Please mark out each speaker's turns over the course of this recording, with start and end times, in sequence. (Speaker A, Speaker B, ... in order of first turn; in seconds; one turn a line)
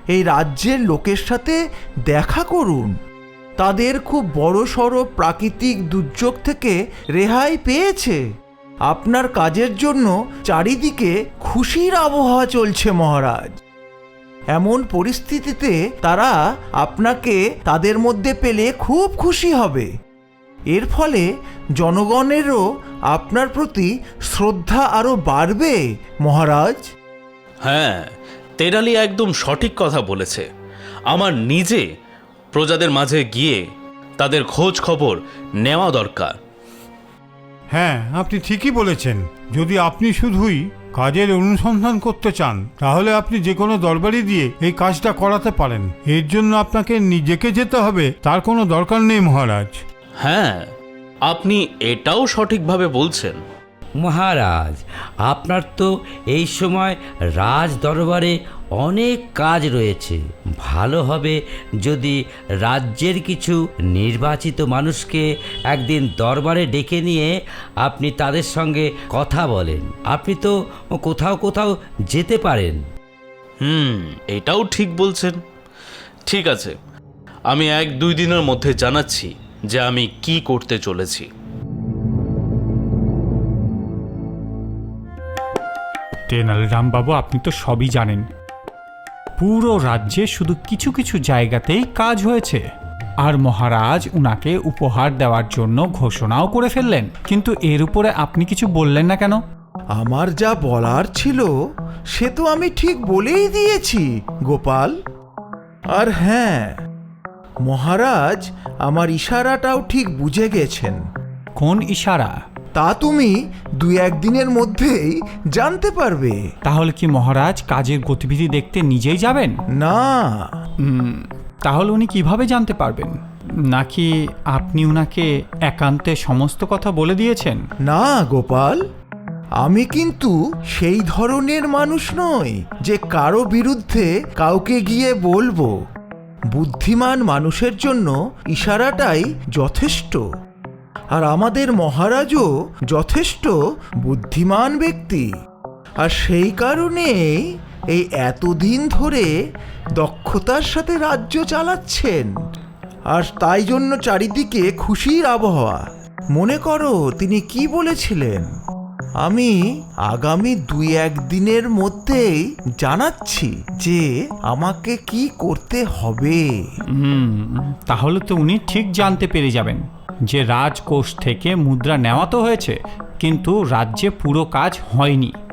Speaker A: 0.1-3.0
Speaker A: 3.6-8.2
Speaker A: 8.9-13.6
Speaker A: 14.5-19.9
Speaker A: 20.7-21.3
Speaker A: 21.8-26.9
Speaker B: 27.6-30.5
Speaker B: 31.1-31.8
Speaker B: 32.5-33.6
Speaker B: 34.2-36.4
Speaker C: 37.7-49.8
Speaker B: 50.2-50.7
Speaker B: 51.3-53.4
Speaker D: 54.0-67.3
Speaker D: 67.8-72.8
Speaker B: 73.6-75.4
Speaker B: 76.3-76.8
Speaker B: 77.5-81.3
Speaker E: 86.3-88.2
Speaker E: 89.4-92.6
Speaker E: 93.2-99.4
Speaker A: 100.0-101.5
Speaker A: 102.1-105.0
Speaker A: 105.9-106.8
Speaker A: 107.6-111.0
Speaker E: 111.6-112.4
Speaker A: 112.8-116.4
Speaker E: 116.7-119.6
Speaker A: 119.8-120.5
Speaker E: 120.8-123.2
Speaker E: 123.7-127.6
Speaker A: 127.9-128.8
Speaker A: 129.6-135.7
Speaker A: 136.5-140.2
Speaker A: 141.1-145.3
Speaker A: 146.0-149.3
Speaker A: 150.0-152.4
Speaker A: 153.1-158.5
Speaker A: 159.2-166.7
Speaker E: 166.9-175.4